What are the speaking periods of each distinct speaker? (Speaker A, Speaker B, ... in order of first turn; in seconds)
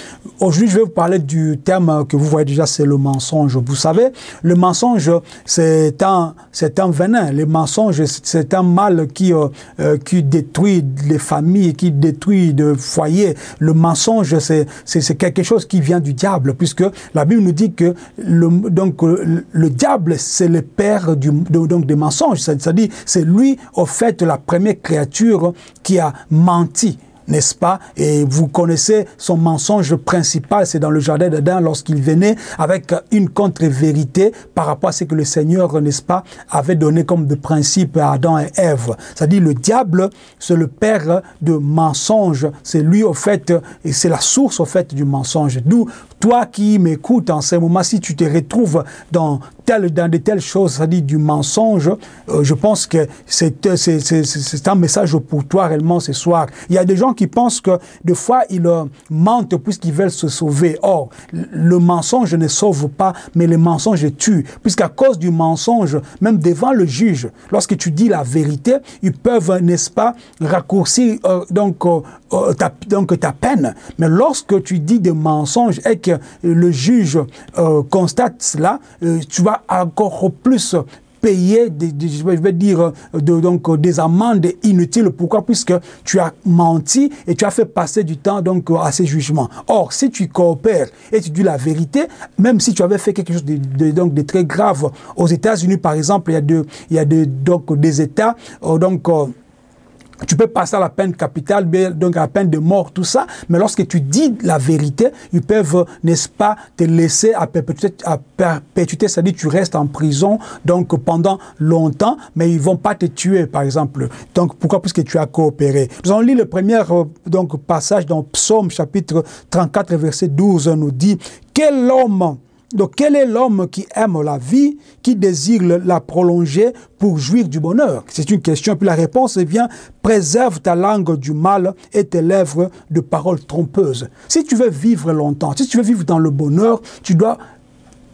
Speaker A: 0.4-99.3, 100.2-137.4